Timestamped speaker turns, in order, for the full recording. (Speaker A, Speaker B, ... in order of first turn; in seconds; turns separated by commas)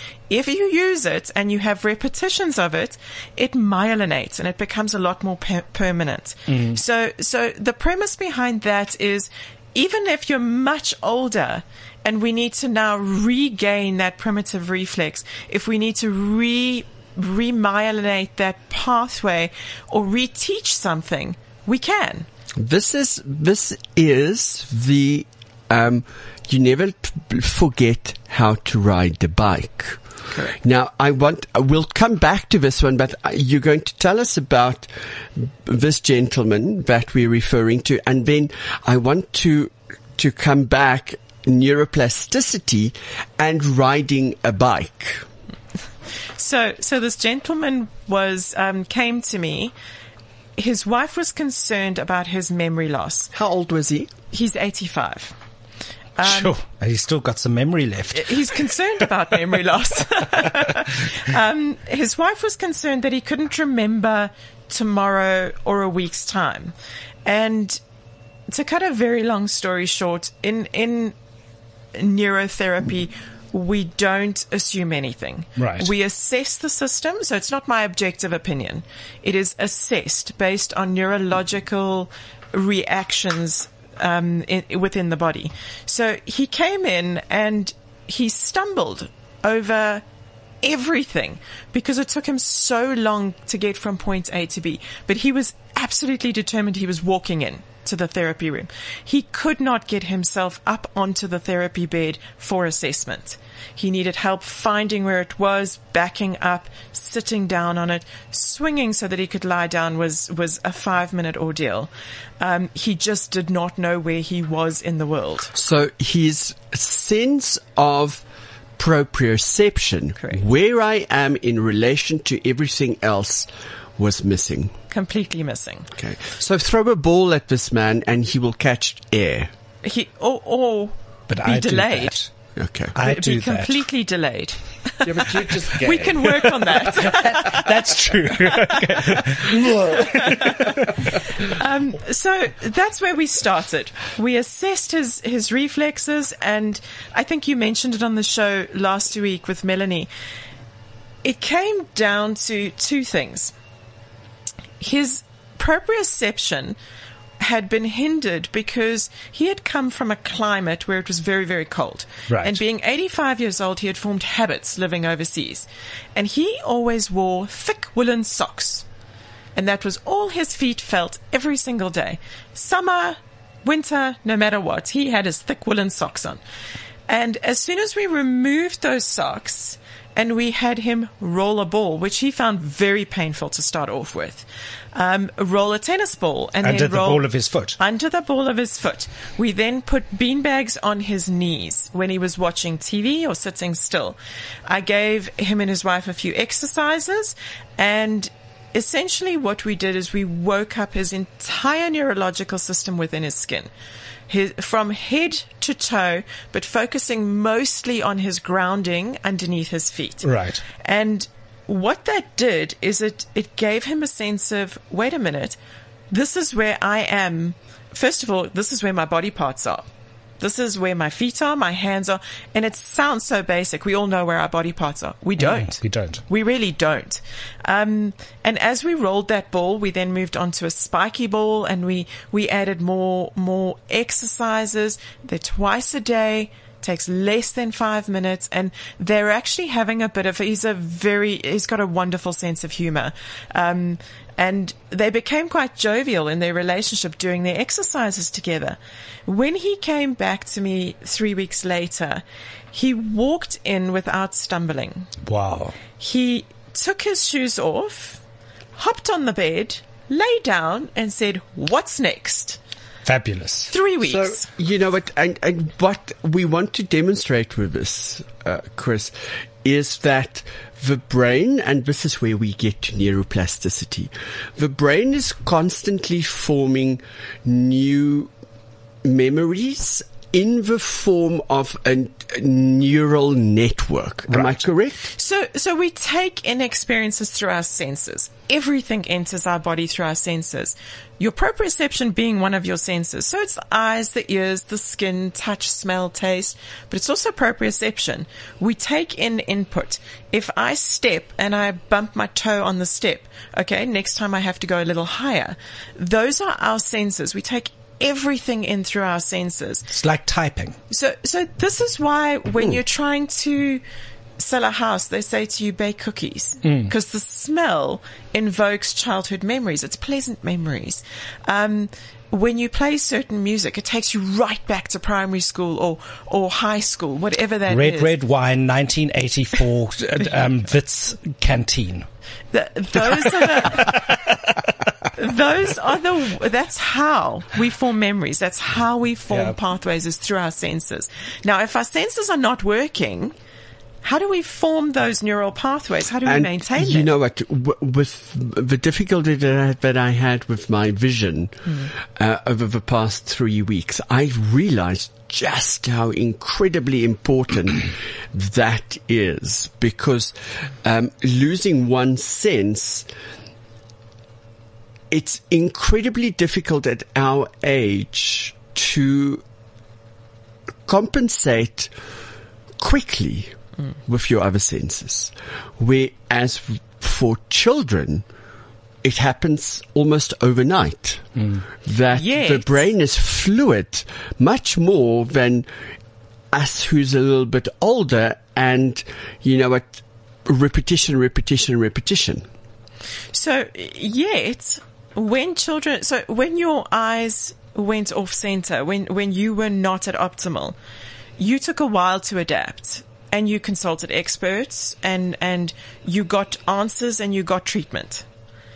Speaker A: 0.3-22.3, Speaker B: 6.5-6.8, Speaker C: 22.6-30.0, Speaker A: 30.3-30.6, Speaker C: 30.6-45.2, Speaker A: 46.3-49.7, Speaker A: 50.6-53.3, Speaker C: 53.3-54.1, Speaker A: 54.3-55.3, Speaker A: 56.2-56.5, Speaker B: 56.2-58.7, Speaker A: 58.1-66.7, Speaker A: 67.2-67.8, Speaker A: 68.5-71.1, Speaker A: 71.9-90.0, Speaker B: 75.6-75.9, Speaker A: 90.6-115.5, Speaker C: 115.5-118.2, Speaker C: 118.8-124.7, Speaker A: 124.9-125.9, Speaker C: 125.9-129.5, Speaker A: 129.8-132.2, Speaker B: 131.3-132.3, Speaker C: 132.5-132.9, Speaker B: 132.9-133.8, Speaker A: 133.0-137.7, Speaker C: 135.0-136.5, Speaker B: 136.7-141.0, Speaker A: 138.5-150.1, Speaker A: 151.2-153.5, Speaker A: 154.8-156.8, Speaker A: 157.4-168.8, Speaker B: 162.3-162.6, Speaker A: 169.5-176.4, Speaker A: 177.1-187.2, Speaker B: 186.6-187.8, Speaker A: 187.8-203.7, Speaker A: 204.3-215.6, Speaker B: 210.2-210.6, Speaker A: 216.1-219.9, Speaker A: 220.4-255.1, Speaker B: 225.4-226.2, Speaker B: 255.2-255.8, Speaker A: 256.0-258.2, Speaker A: 258.8-262.6, Speaker B: 263.0-263.7, Speaker A: 263.7-264.4, Speaker C: 264.0-278.3, Speaker C: 279.0-285.0, Speaker B: 284.3-284.6, Speaker A: 285.1-309.9, Speaker B: 309.9-310.8, Speaker A: 310.9-313.8, Speaker A: 314.4-328.1, Speaker B: 316.6-316.9, Speaker B: 327.7-332.1, Speaker A: 332.5-334.4, Speaker B: 333.0-334.6, Speaker A: 335.1-343.3, Speaker A: 344.0-347.1, Speaker C: 346.2-363.1, Speaker C: 365.1-369.4, Speaker C: 370.9-371.9, Speaker C: 372.8-373.5, Speaker C: 374.0-378.2, Speaker C: 379.0-381.3, Speaker B: 381.4-381.6, Speaker C: 381.8-385.7, Speaker A: 382.1-382.8, Speaker C: 386.5-392.5, Speaker A: 393.3-400.8, Speaker A: 401.4-408.2